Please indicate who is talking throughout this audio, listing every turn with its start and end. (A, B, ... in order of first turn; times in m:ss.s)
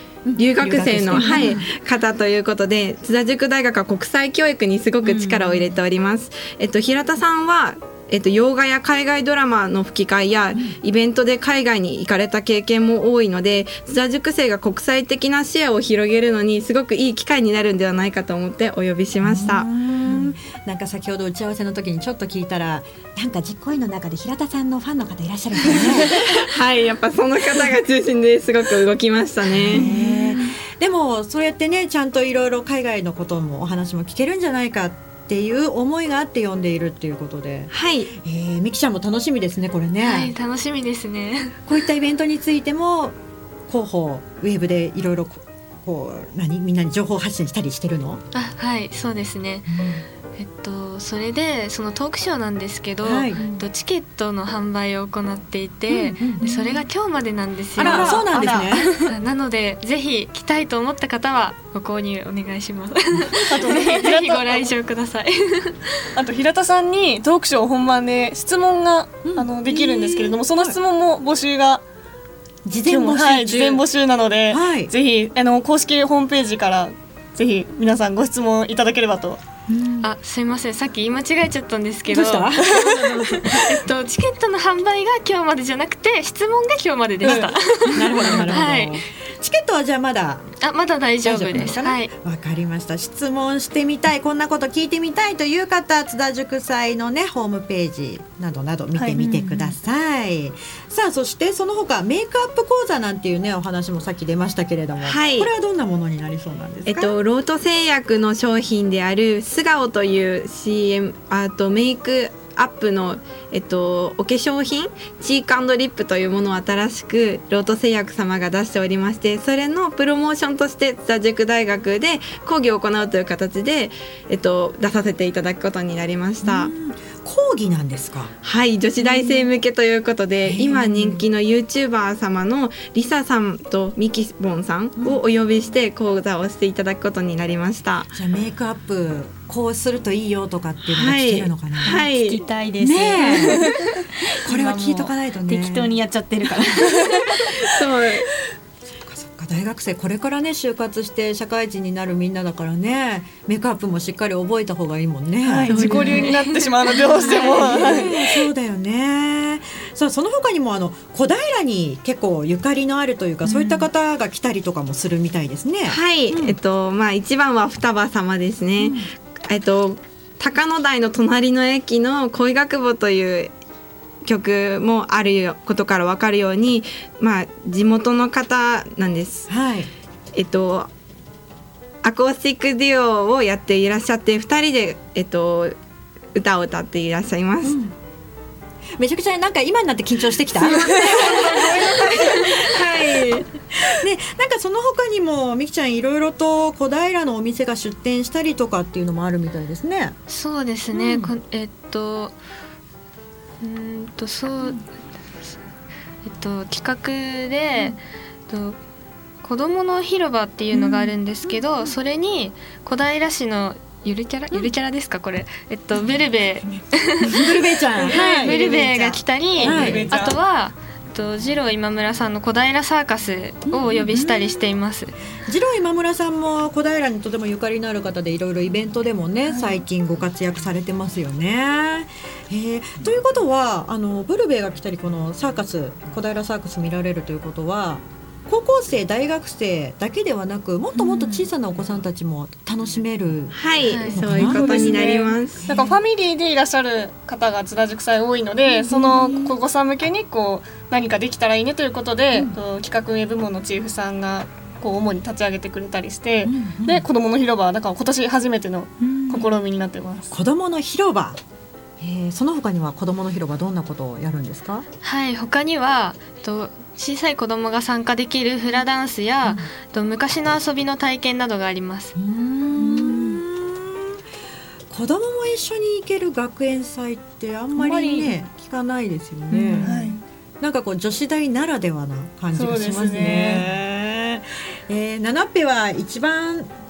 0:00.2-0:01.6 A
0:00.4-0:19.7 B
0:05.0-0:05.4 C
0:19.2-0:26.2 A
0:25.7-0:30.2 B
0:29.5-0:40.3 A
0:37.7-0:38.1 B
0:40.0-0:41.6 D
0:41.7-0:43.2 A
0:43.7-0:48.2 A
0:48.3-1:06.1 D
0:49.7-0:50.0 A
0:53.0-0:53.6 A
0:55.9-0:56.8 A
0:57.8-0:59.0 A
0:57.8-0:58.8 C
1:03.5-1:04.7 E
1:06.2-1:11.8 E
1:09.2-1:10.7 A
1:12.6-1:13.8 A
1:12.8-1:19.4 E
1:14.5-1:14.9 A
1:19.7-1:20.1 A
1:20.0-1:29.0 D
1:22.1-1:23.8 A
1:22.6-1:23.0 E
1:27.2-1:30.5 A
1:27.2-1:27.5 E
1:28.2-1:28.4 E
1:30.6-1:32.1 D
1:31.2-1:47.2 A
1:38.9-1:39.2 E
1:39.2-1:39.7 B
1:45.0-1:45.5 B
1:46.8-2:06.7 B
2:06.4-2:08.3 A
2:08.4-2:18.1 B
2:09.0-2:09.4 A
2:10.4-2:11.2 A
2:18.1-2:22.0 A
2:20.8-2:22.4 B
2:21.8-2:23.8 C
2:22.8-2:23.7 A
2:24.4-2:25.9 A
2:24.4-2:27.5 C
2:27.7-2:28.3 B
2:29.0-2:36.4 A
2:35.4-2:38.4 E
2:35.8-2:37.8 D
2:37.2-2:46.6 A
2:43.5-2:43.8 B
2:45.8-2:53.5 B
2:48.8-2:49.1 A
2:54.2-2:59.5 B
2:59.5-2:59.9 A
3:00.3-3:00.9 B
3:02.0-3:05.8 B
3:06.3-3:07.8 B
3:07.6-3:07.9 A
3:09.0-3:13.0 A
3:10.6-3:12.1 B
3:12.6-3:13.5 B
3:13.9-3:20.2 A
3:20.3-3:22.4 D
3:20.9-3:21.3 A
3:23.6-3:24.8 D
3:26.2-3:28.8 D
3:29.4-3:45.1 D
3:30.7-3:31.8 A
3:37.2-3:40.2 A
3:39.5-3:40.4 E
3:43.7-3:44.6 A
3:45.5-4:05.9 A
3:49.4-3:49.8 E
4:03.5-4:05.7 B
4:03.8-4:04.3 D
4:05.6-4:20.3 E
4:08.7-4:09.5 A
4:16.4-4:17.0 A
4:19.0-4:19.5 A
4:20.3-4:21.4 A
4:22.0-4:24.8 A
4:25.0-4:32.1 D
4:32.2-4:34.2 A
4:34.9-4:46.7 A
4:37.8-4:38.3 C
4:39.5-4:39.8 C
4:39.8-4:40.2 E
4:42.5-4:43.6 E